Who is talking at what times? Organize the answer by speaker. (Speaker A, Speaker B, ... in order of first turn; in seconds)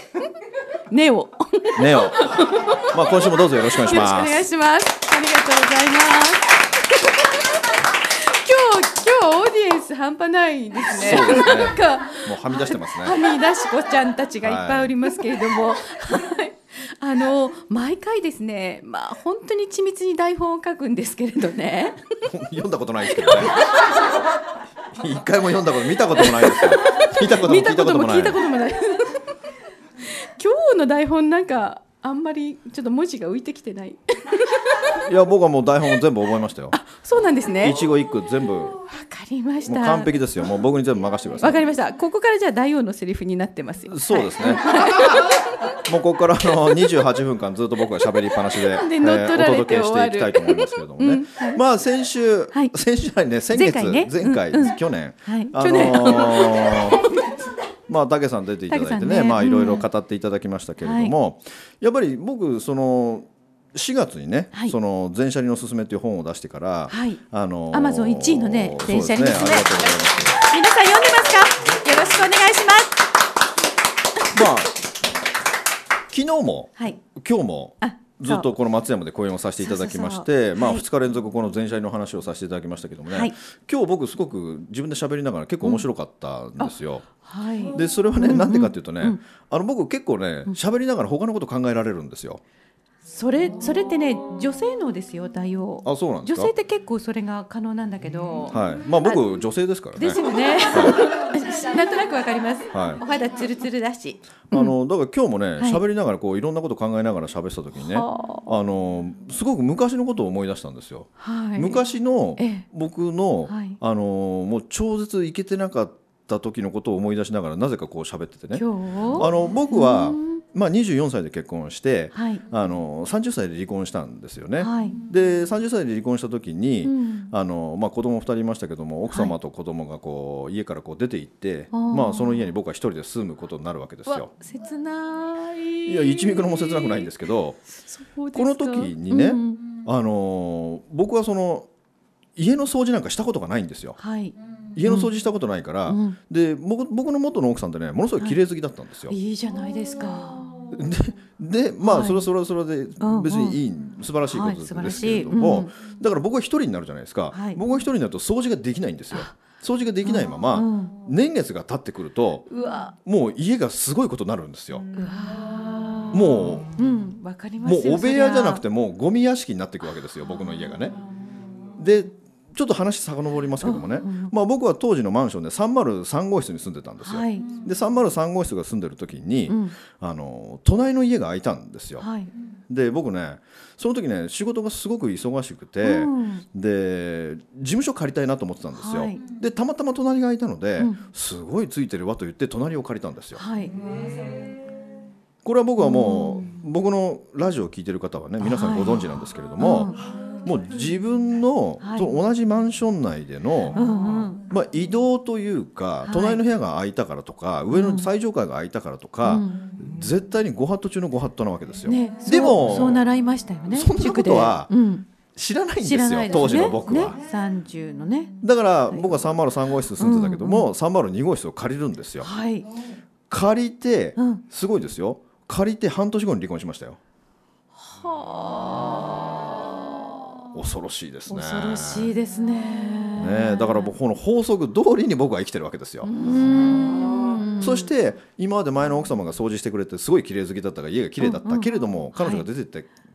Speaker A: 0.9-7.2, 8.0-22.1, 23.2-23.6, 26.2-29.2, 30.0-35.0, 36.7-37.8, 38.8-40.1, 41.4-45.3, 48.5-51.6, 53.5-57.1, 58.7-59.8, 60.8-61.1, 66.9-73.0, 77.8-78.5, 79.6-80.8, 83.1-83.3, 86.6-89.2, 93.0-99.2, 99.9-104.7, 107.9-108.5, 111.2-111.8, 112.4-112.7, 113.5-113.8, 118.5-120.4, 122.1-122.5, 124.6-125.0, 126.8-127.3, 129.1-129.3, 131.7-132.5, 134.1-137.1, 137.8-139.6, 144.0-145.1, 145.8-146.2, 149.1-150.5, 151.8-152.3, 153.0-153.6, 154.3-155.7, 157.3-157.6, 159.1-159.4, 160.0-160.9, 162.5-162.9, 164.9-168.6, 173.6-174.3, 177.0-177.6, 179.5-179.8, 182.0-182.3, 185.8-186.4, 188.8-189.2, 193.3-193.8, 195.8-196.6, 198.4-200.0, 201.8-202.1, 203.7-204.4, 206.0-206.4, 207.7-208.1, 209.2-209.7, 211.8-215.1, 215.8-218.3, 218.9-219.2, 220.0-220.7, 222.2-222.7, 224.2-224.4, 227.9-230.1, 231.3-233.9, 236.0-237.9, 241.2-242.5
Speaker B: 1.7-4.4, 10.9-13.2, 14.4-15.2, 22.3-23.6, 24.9-28.4, 35.0-36.8, 37.6-38.8, 39.6-41.6, 43.9-45.1, 45.8-57.0, 57.9-70.4, 74.3-74.7, 76.1-87.1, 87.7-92.4, 95.8-96.5, 98.5-101.0, 102.7-103.0, 104.5-134.3, 135.8-137.6, 138.3-141.7, 142.3-144.0, 144.7-149.1, 150.7-162.5, 163.0-164.8, 166.1-166.7, 167.6-171.0, 171.8-182.1, 182.7-193.4, 195.4-203.8, 204.4-213.0, 213.7-214.7, 215.3-217.1, 218.4-222.3, 223.3-227.0, 230.5-232.1, 233.2-236.1, 237.6-242.9